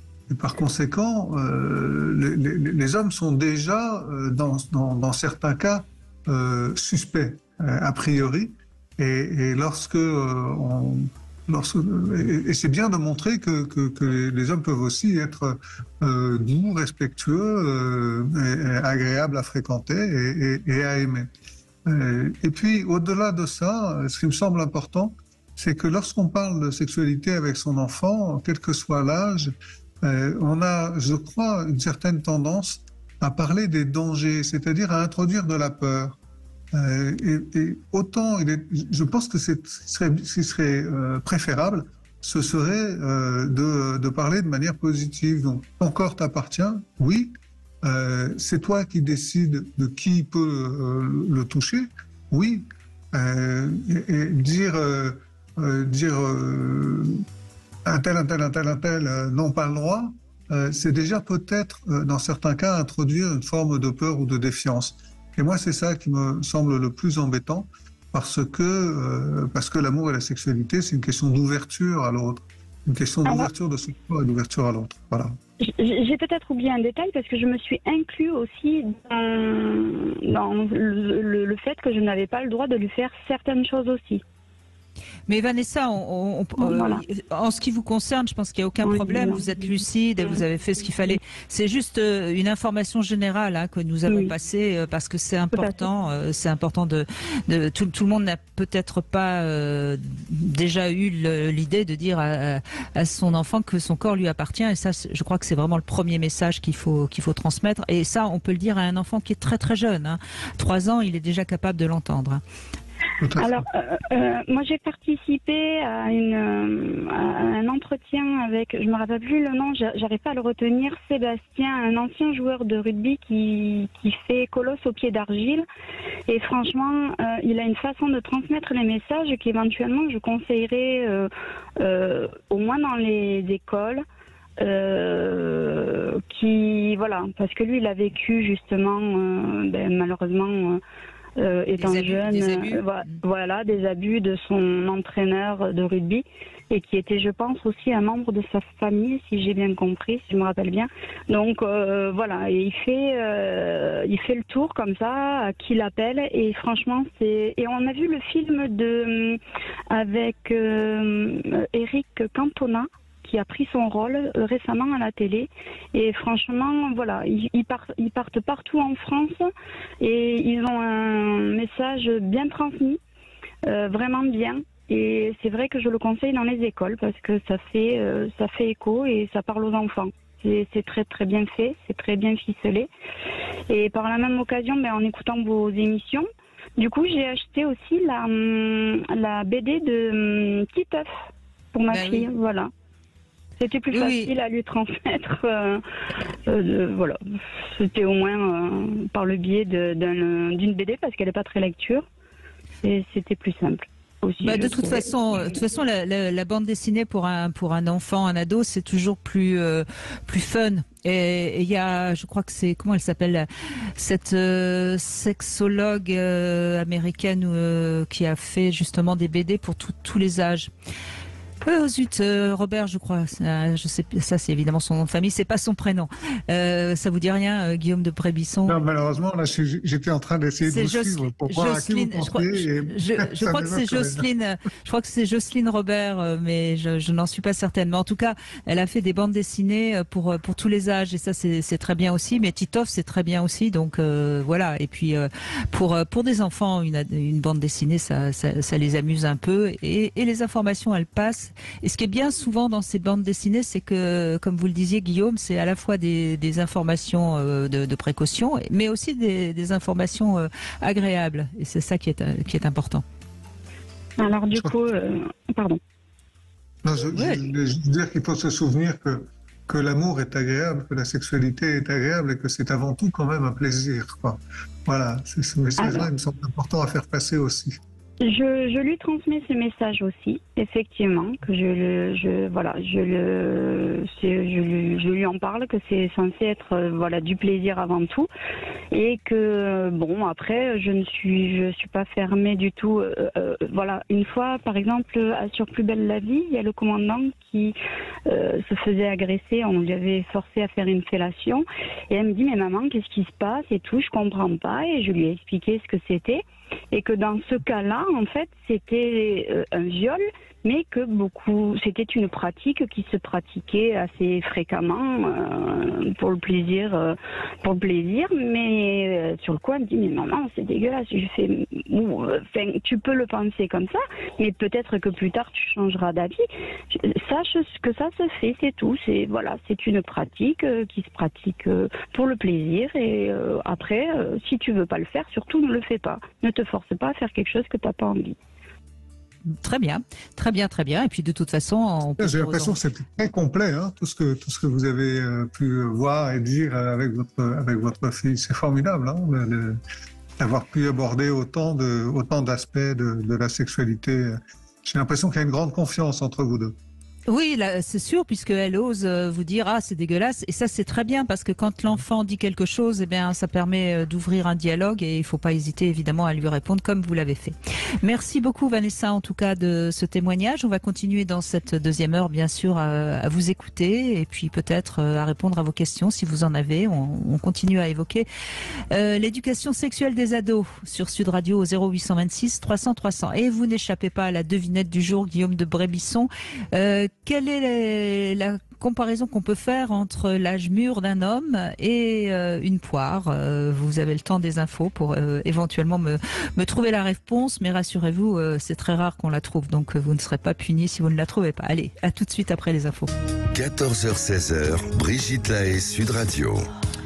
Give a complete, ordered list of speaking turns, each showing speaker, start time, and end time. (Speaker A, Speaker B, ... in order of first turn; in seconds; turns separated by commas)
Speaker A: 0.3-21.3, Speaker A: 21.8-36.2, Speaker A: 36.7-57.2, Speaker A: 57.8-75.3, Speaker B: 75.6-84.2, Speaker C: 85.3-112.4, Speaker B: 86.6-87.0, Speaker B: 88.8-89.4, Speaker B: 95.5-95.8, Speaker A: 113.2-113.6, Speaker B: 113.4-125.7, Speaker B: 126.3-134.0, Speaker B: 134.6-140.8, Speaker B: 141.4-159.4, Speaker C: 141.8-143.1, Speaker B: 159.9-169.5, Speaker B: 170.0-173.0, Speaker B: 173.7-182.9, Speaker B: 183.7-186.3, Speaker B: 186.8-191.1, Speaker B: 191.7-192.7, Speaker C: 191.9-192.3, Speaker B: 193.6-195.8, Speaker C: 193.9-194.3, Speaker B: 196.5-197.2, Speaker B: 197.7-202.1, Speaker B: 202.8-205.0, Speaker C: 204.4-220.7, Speaker C: 221.6-228.8, Speaker A: 228.7-234.2, Speaker C: 230.6-263.0, Speaker B: 264.2-265.8, Speaker A: 266.8-277.8, Speaker C: 267.1-267.4, Speaker B: 275.8-276.1, Speaker B: 278.2-288.3, Speaker B: 288.9-297.8, Speaker B: 298.3-338.3, Speaker C: 339.6-342.7, Speaker A: 342.2-349.8, Speaker A: 350.4-356.8, Speaker C: 357.3-378.3, Speaker C: 378.9-403.1, Speaker D: 403.5-406.7